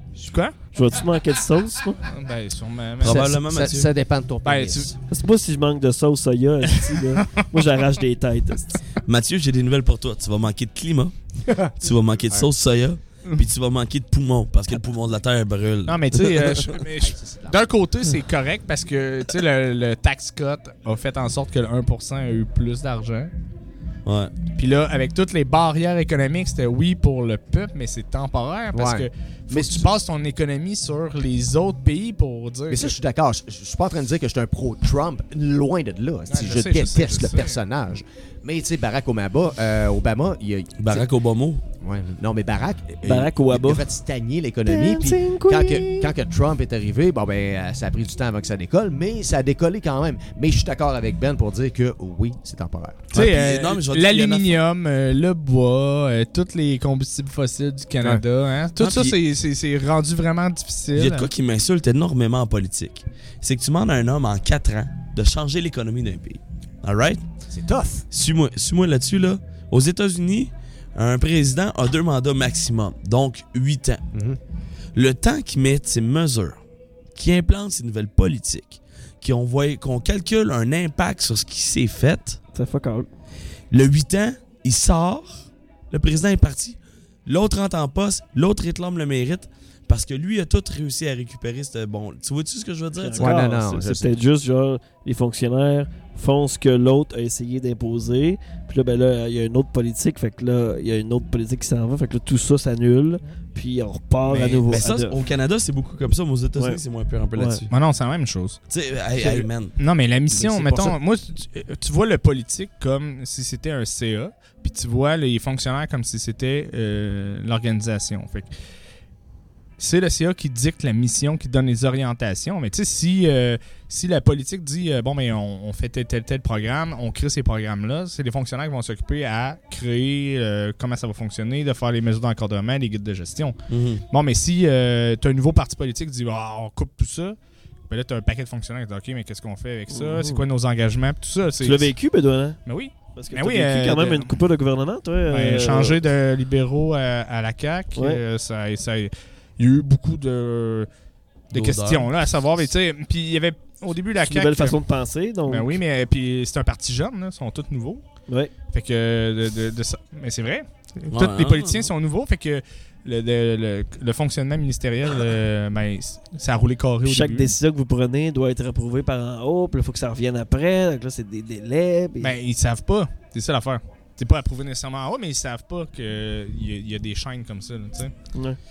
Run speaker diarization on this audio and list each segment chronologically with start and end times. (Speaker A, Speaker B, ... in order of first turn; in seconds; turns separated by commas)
Speaker A: 0.2-0.6, Speaker B: 0.7-2.0, Speaker A: 2.1-3.3, Speaker C: 3.0-3.9, Speaker D: 3.0-5.0, Speaker A: 4.4-4.9, Speaker B: 5.1-8.8, Speaker C: 9.1-11.1, Speaker D: 11.5-11.7, Speaker C: 11.8-16.6, Speaker A: 15.9-23.3, Speaker D: 16.9-17.7, Speaker C: 24.0-24.3, Speaker A: 24.5-32.9, Speaker D: 28.7-29.9, Speaker D: 32.7-41.1, Speaker A: 36.3-37.6, Speaker C: 40.8-41.6, Speaker D: 41.8-53.1, Speaker B: 43.0-43.9, Speaker B: 44.6-46.1, Speaker C: 53.1-54.6, Speaker A: 53.1-61.3, Speaker C: 58.8-59.2, Speaker C: 60.9-67.2, Speaker D: 67.5-68.0, Speaker C: 68.1-74.0, Speaker D: 74.1-74.4, Speaker C: 74.9-76.6, Speaker C: 77.1-82.4, Speaker B: 82.5-83.1, Speaker C: 83.7-93.3, Speaker B: 93.0-105.2, Speaker D: 93.2-94.2, Speaker A: 104.2-104.7, Speaker C: 104.7-107.7, Speaker B: 107.3-107.6, Speaker A: 107.7-108.6, Speaker C: 108.7-109.8, Speaker A: 109.8-118.5, Speaker D: 110.3-110.9, Speaker A: 119.8-133.6, Speaker C: 133.7-134.0, Speaker A: 134.1-137.4, Speaker A: 137.9-141.9, Speaker B: 139.9-140.4, Speaker B: 141.6-142.6, Speaker A: 142.6-144.4, Speaker B: 143.1-146.0, Speaker A: 145.3-150.9, Speaker B: 147.9-148.2, Speaker A: 151.5-154.8, Speaker C: 151.5-152.6, Speaker B: 154.2-155.7, Speaker A: 155.5-158.0, Speaker A: 158.7-167.5, Speaker C: 161.1-161.9, Speaker B: 167.0-172.3, Speaker A: 172.2-178.1